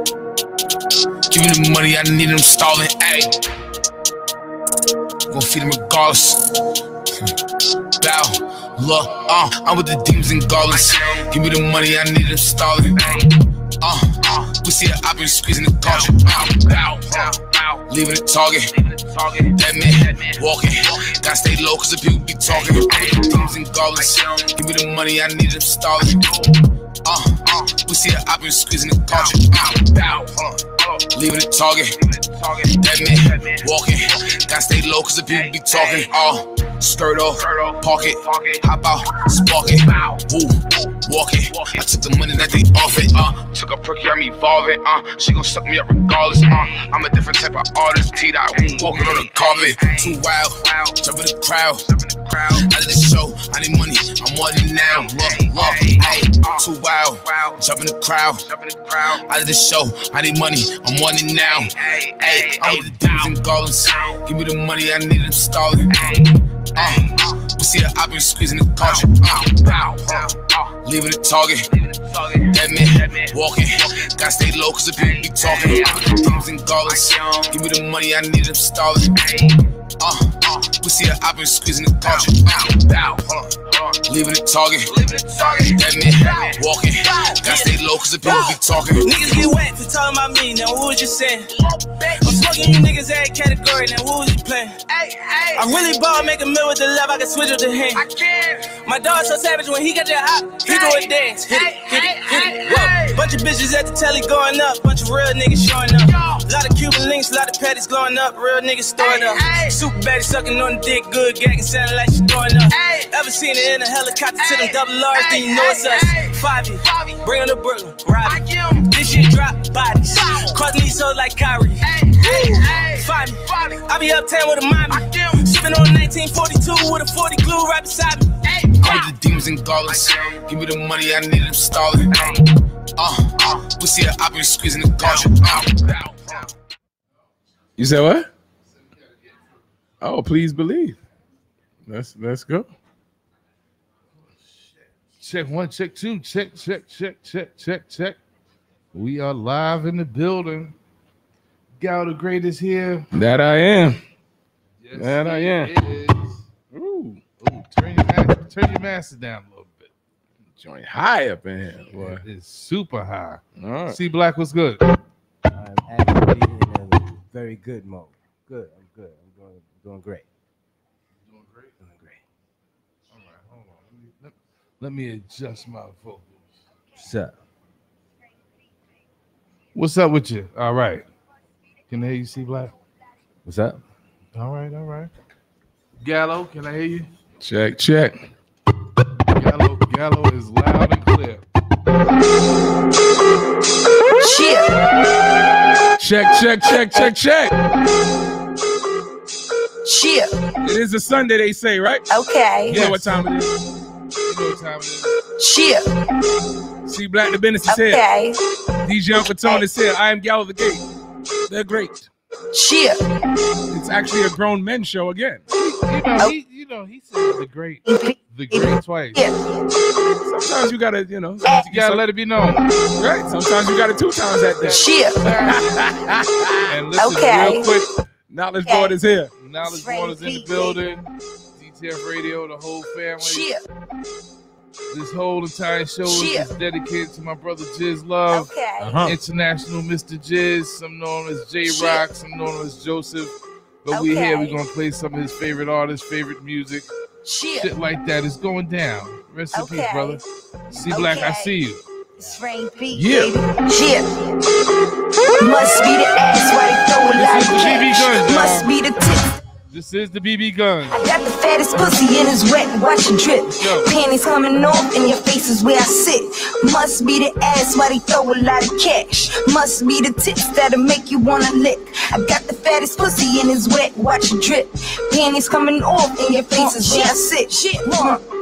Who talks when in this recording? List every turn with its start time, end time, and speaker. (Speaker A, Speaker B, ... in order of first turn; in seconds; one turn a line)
Speaker A: 1.3-3.3
Speaker A: 5.3-6.5
Speaker A: 8.0-26.4
Speaker A: 27.1-30.4
Speaker A: 31.1-66.2
Speaker A: 66.8-71.7
Speaker A: 72.3-79.3
Speaker A: 80.0-82.9
Speaker A: 84.0-89.2
Speaker B: 87.4-87.7
Speaker B: 88.3-129.1
Speaker A: 128.8-132.3
Speaker A: 133.0-136.0
Speaker C: 137.8-138.3
Speaker C: 140.0-141.0
Speaker C: 141.9-142.7
Speaker D: 145.2-148.2
Speaker D: 148.9-150.8
Speaker D: 151.8-153.1
Speaker C: 153.1-154.0
Speaker D: 154.8-156.4
Speaker C: 155.0-155.7
Speaker C: 156.7-157.2
Speaker D: 157.4-159.9
Speaker C: 160.6-162.2
Speaker D: 161.9-164.8
Speaker C: 163.6-164.0
Speaker E: 165.6-170.3
Speaker D: 171.3-171.7
Speaker E: 171.8-172.2
Speaker D: 173.1-176.6
Speaker E: 177.0-177.4
Speaker D: 179.8-181.1
Speaker D: 181.9-182.7
Speaker D: 183.5-183.8
Speaker D: 184.3-185.1
Speaker D: 186.0-187.1
Speaker C: 187.4-188.2
Speaker D: 189.3-191.4
Speaker F: 194.2-194.7
Speaker C: 196.0-197.5
Speaker F: 199.8-200.3
Speaker C: 200.6-202.1
Speaker F: 202.1-202.8
Speaker C: 202.7-203.5
Speaker D: 202.7-203.3
Speaker D: 204.3-205.2
Speaker F: 205.4-205.9
Speaker C: 206.9-208.1
Speaker F: 207.7-208.4
Speaker C: 208.8-210.8
Speaker C: 211.5-212.1
Speaker F: 212.5-213.0
Speaker C: 213.7-215.4
Speaker D: 215.5-219.3
Speaker F: 217.9-219.4
Speaker C: 220.2-222.0
Speaker D: 221.5-222.6
Speaker C: 223.0-224.9
Speaker D: 224.4-225.7
Speaker F: 224.7-225.2
Speaker C: 225.4-226.8
Speaker D: 226.7-227.8
Speaker F: 227.0-227.7
Speaker C: 228.3-229.3
Speaker F: 228.7-228.9
Speaker D: 229.4-233.5
Speaker F: 229.7-230.8
Speaker F: 233.2-233.6
Speaker D: 234.9-238.5
Speaker F: 236.1-236.5
Speaker F: 238.3-239.0
Speaker C: 238.8-239.1
Speaker D: 239.0-243.3
Speaker F: 241.7-242.0
Speaker D: 243.8-246.9
Speaker F: 243.9-244.6
Speaker F: 247.2-247.7
Speaker D: 247.6-251.8
Speaker F: 249.5-250.2
Speaker F: 250.7-251.6
Speaker F: 252.2-254.4
Speaker F: 255.4-259.4
Speaker D: 257.1-258.7
Speaker D: 259.7-261.0
Speaker F: 261.0-278.2
Speaker D: 263.6-263.9